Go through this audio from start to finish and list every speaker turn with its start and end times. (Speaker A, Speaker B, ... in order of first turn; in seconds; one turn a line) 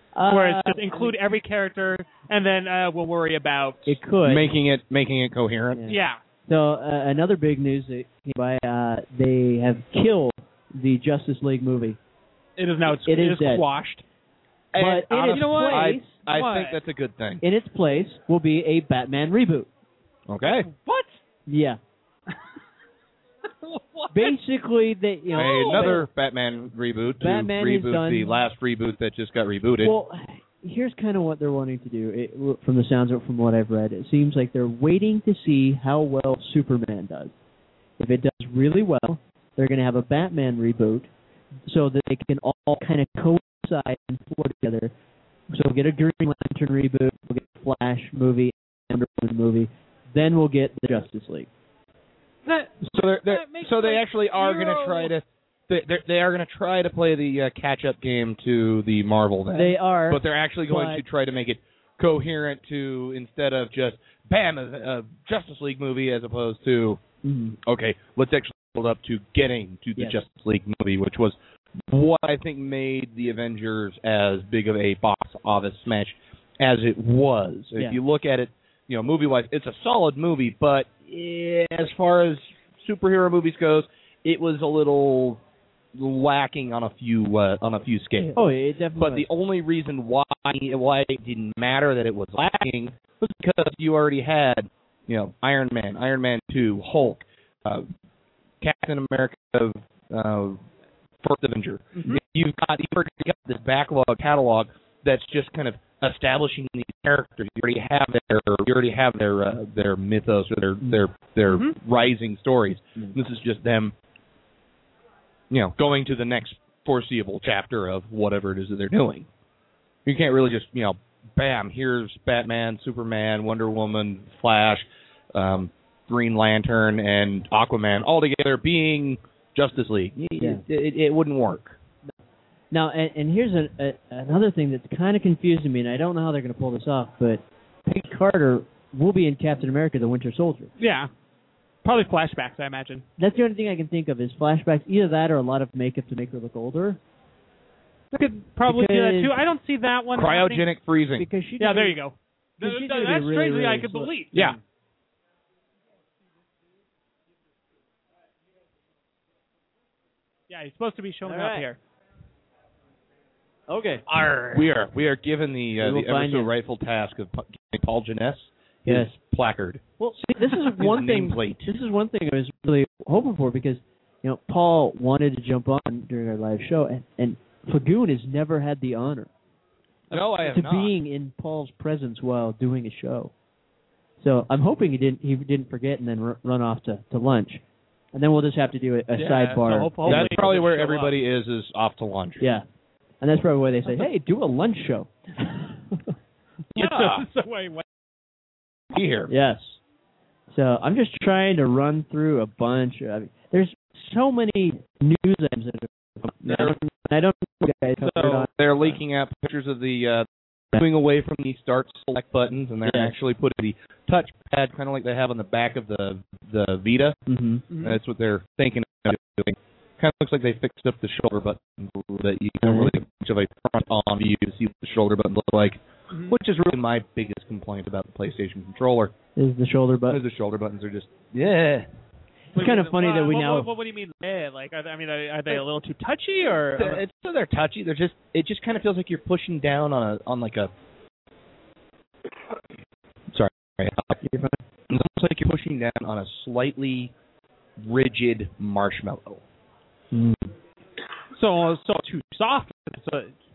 Speaker A: 0.1-1.1
Speaker B: 0.3-4.0
Speaker A: 3.9-4.5
Speaker C: 4.2-5.8
Speaker A: 5.7-12.0
Speaker B: 5.9-6.2
Speaker B: 12.6-14.0
Speaker A: 12.9-13.6
Speaker C: 14.7-17.4
Speaker A: 14.7-16.1
Speaker B: 15.3-16.8
Speaker A: 17.4-19.7
Speaker C: 20.3-20.7
Speaker B: 20.4-21.2
Speaker A: 21.5-21.8
Speaker B: 23.6-24.3
Speaker A: 24.1-26.1
Speaker B: 25.3-26.0
Speaker C: 25.4-29.9
Speaker A: 27.2-28.4
Speaker A: 29.8-37.3
Speaker A: 38.0-41.1
Speaker A: 41.6-44.9
Speaker A: 45.5-51.5
Speaker B: 52.4-55.1
Speaker C: 52.8-67.0
Speaker A: 59.5-61.0
Speaker A: 67.2-67.6
Speaker C: 67.6-71.3
Speaker A: 70.0-70.2
Speaker C: 71.9-85.4
Speaker C: 85.9-88.3
Speaker A: 88.3-89.3
Speaker C: 89.0-97.9
Speaker C: 98.6-100.6
Speaker C: 101.2-113.9
Speaker B: 111.5-111.7
Speaker C: 115.5-119.3
Speaker C: 120.0-131.8
Speaker A: 132.7-140.7
Speaker B: 140.8-141.1
Speaker B: 141.8-143.1
Speaker A: 143.2-147.0
Speaker B: 148.1-150.7
Speaker A: 148.6-149.4
Speaker C: 150.1-151.2
Speaker A: 151.2-152.0
Speaker B: 151.6-154.6
Speaker A: 152.6-154.5
Speaker B: 160.5-161.8
Speaker A: 161.2-161.7
Speaker A: 163.7-164.0
Speaker B: 164.1-164.6
Speaker C: 164.5-169.8
Speaker A: 165.8-166.5
Speaker A: 170.0-179.3
Speaker C: 170.7-171.7
Speaker C: 180.1-180.9
Speaker A: 180.4-183.3
Speaker A: 184.2-187.6
Speaker A: 188.1-190.5
Speaker B: 189.2-191.1
Speaker C: 190.1-192.4
Speaker A: 192.4-192.7
Speaker A: 193.2-196.1
Speaker C: 196.7-197.2
Speaker B: 196.8-197.8
Speaker C: 198.9-199.3
Speaker A: 199.3-199.8
Speaker A: 200.5-209.0
Speaker B: 208.0-208.4
Speaker C: 208.2-217.2
Speaker A: 212.8-213.1
Speaker A: 217.3-217.6
Speaker B: 217.7-217.9
Speaker C: 217.8-229.1
Speaker A: 222.6-222.9
Speaker A: 229.3-230.2
Speaker C: 230.1-231.9
Speaker A: 232.5-233.7
Speaker B: 232.5-237.0
Speaker C: 236.8-240.7
Speaker C: 243.3-244.2
Speaker A: 244.2-244.6
Speaker C: 244.9-247.1
Speaker C: 247.8-249.4
Speaker A: 250.1-250.5
Speaker B: 251.3-253.3